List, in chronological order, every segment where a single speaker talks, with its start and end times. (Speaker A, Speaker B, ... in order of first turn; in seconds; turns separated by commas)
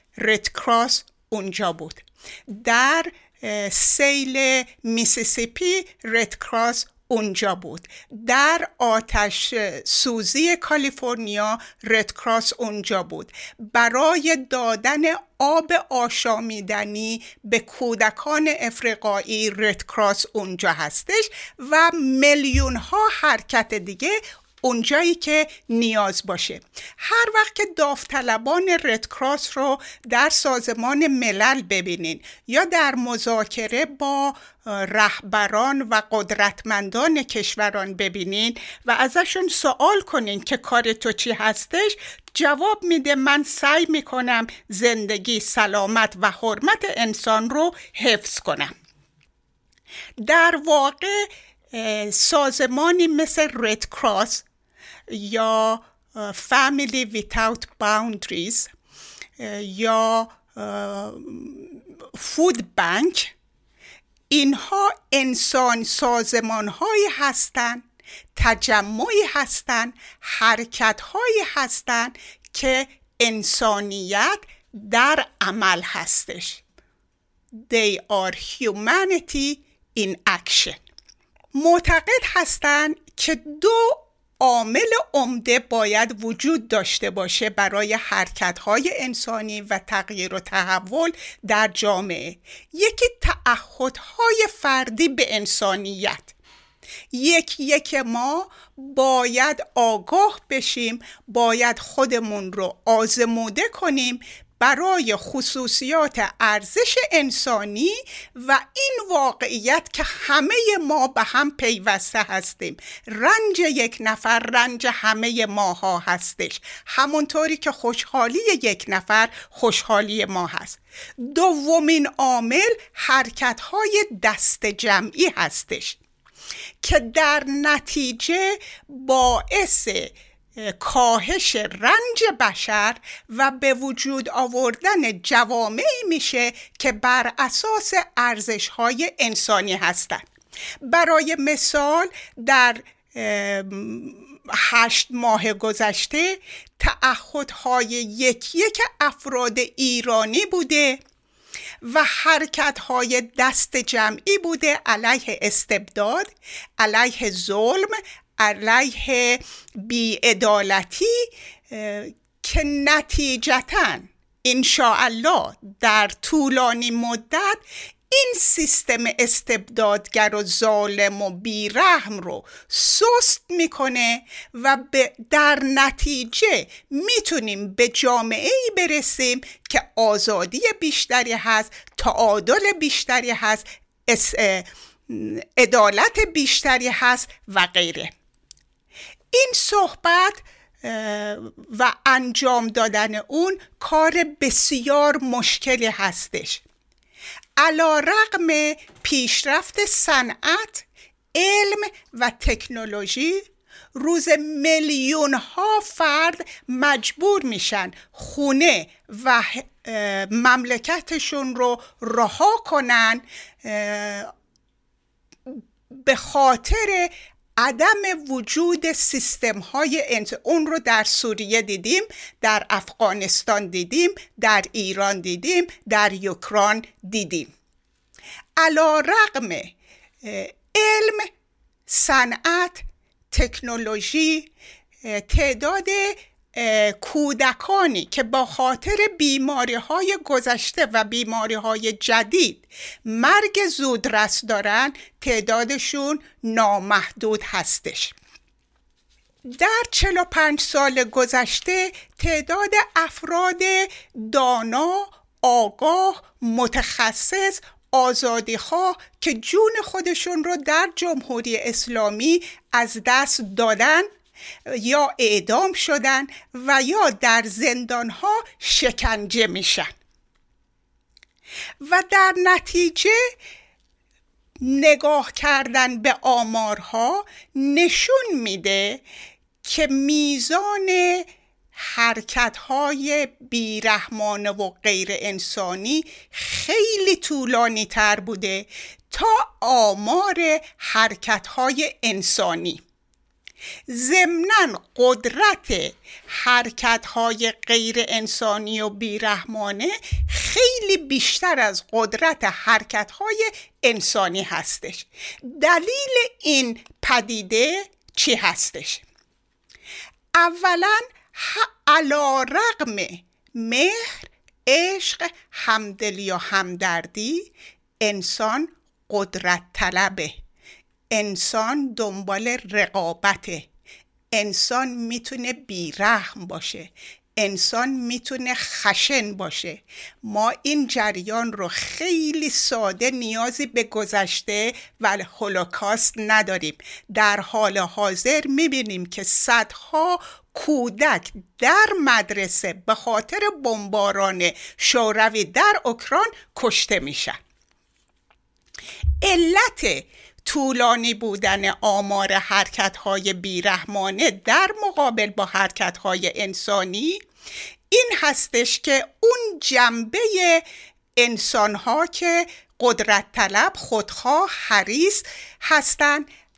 Speaker A: 0.2-48.7, Speaker A: 50.2-54.4, Speaker A: 55.1-58.7, Speaker A: 59.4-63.3, Speaker A: 64.3-67.8, Speaker A: 68.3-76.6, Speaker A: 77.6-80.8, Speaker A: 81.5-96.3, Speaker A: 97.1-126.0, Speaker A: 126.8-140.2, Speaker A: 140.8-151.0, Speaker A: 151.8-188.1, Speaker A: 189.3-196.6, Speaker A: 197.6-214.3, Speaker A: 215.5-227.5, Speaker A: 228.6-231.3, Speaker A: 231.9-234.5, Speaker A: 235.0-248.1, Speaker A: 249.4-264.1, Speaker A: 264.6-269.9, Speaker A: 271.8-273.3, Speaker A: 274.6-279.0, Speaker A: 279.6-292.8, Speaker A: 293.9-309.0, Speaker A: 310.3-320.4, Speaker A: 321.1-323.7, Speaker A: 324.3-347.4, Speaker A: 349.2-357.2, Speaker A: 357.9-360.6, Speaker A: 361.2-366.3